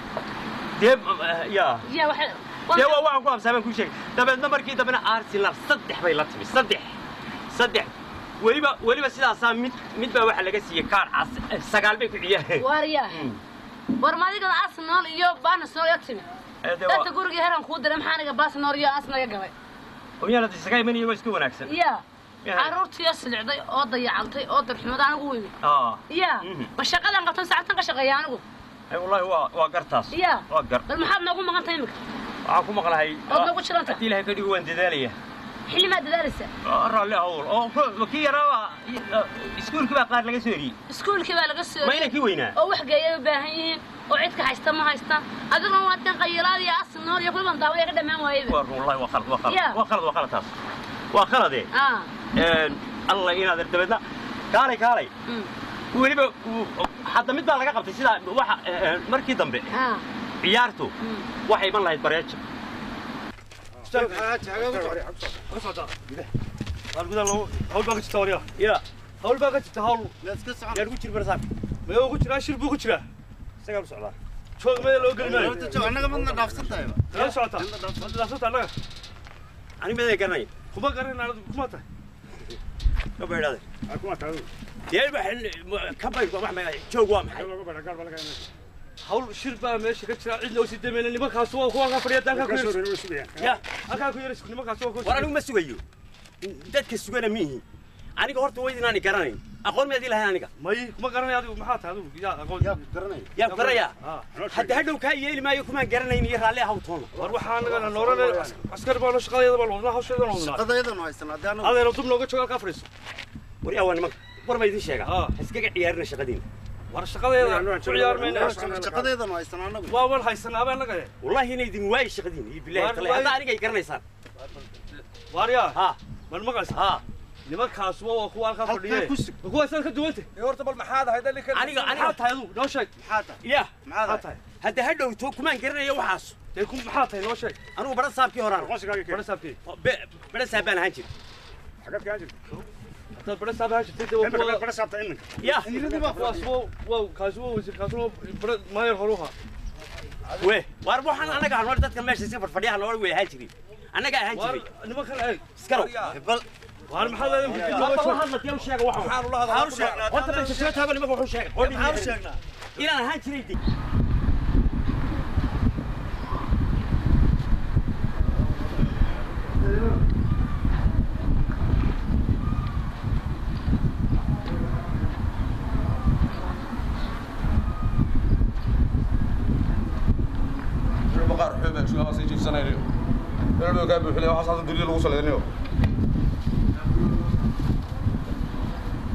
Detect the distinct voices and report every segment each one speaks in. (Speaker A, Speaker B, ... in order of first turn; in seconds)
Speaker A: 0.8-1.8, 2.7-6.9, 7.5-13.4, 16.6-17.1, 20.2-21.8, 22.4-22.8, 25.6-26.7, 28.9-30.9, 32.4-35.2, 36.6-40.8, 41.8-42.6, 48.5-50.5, 51.1-51.7, 52.3-55.1, 55.9-59.7, 60.4-62.4, 68.6-68.8, 70.7-71.5, 73.6-74.2, 79.8-80.5, 83.2-83.6, 84.9-87.6, 93.4-93.8, 95.0-95.8, 96.4-97.6, 98.2-100.5, 103.3-107.2, 113.6-116.4, 121.2-124.0, 125.7-126.0, 126.6-127.0, 131.5-132.2, 133.4-133.7, 134.5-136.4, 137.8-138.8, 139.7-141.1, 145.4-145.8, 150.3-154.7, 155.5-156.4, 157.2-163.6
Speaker B: 1.9-2.9, 12.6-13.2, 14.0-16.2, 16.9-19.5, 21.7-22.0, 22.6-25.5, 26.1-28.4, 30.1-32.0, 33.3-34.0, 35.7-36.5, 40.9-48.6, 49.5-49.8, 51.7-52.1, 59.7-60.0, 61.0-61.3
Speaker C: 63.9-64.8, 65.5-65.9, 66.9-68.4, 69.2-70.1, 71.9-73.0, 74.6-76.3, 77.1-78.7, 80.7-81.8, 89.0-92.9, 93.9-95.3, 100.6-102.8, 103.5-104.8, 107.2-110.8, 111.6-112.9, 116.9-119.1, 119.9-121.1, 122.8-123.3, 125.3-125.7, 127.5-130.3, 131.6-132.9, 134.0-134.4, 136.6-137.6, 139.0-139.6, 143.2-144.7, 145.6-149.3, 154.4-155.4, 156.9-158.2
Speaker D: 64.1-65.0, 70.2-70.8, 75.1-77.9, 83.9-84.4, 87.7-88.4, 92.3-93.5, 102.6-103.3, 107.5-108.3, 110.4-111.8, 117.4-120.0, 128.8-129.3, 133.0-133.4, 133.9-134.2, 138.7-139.2, 141.9-142.3, 144.2-146.5
Speaker E: 130.4-131.7, 155.7-156.1, 158.9-160.3, 181.1-182.9, 183.6-185.4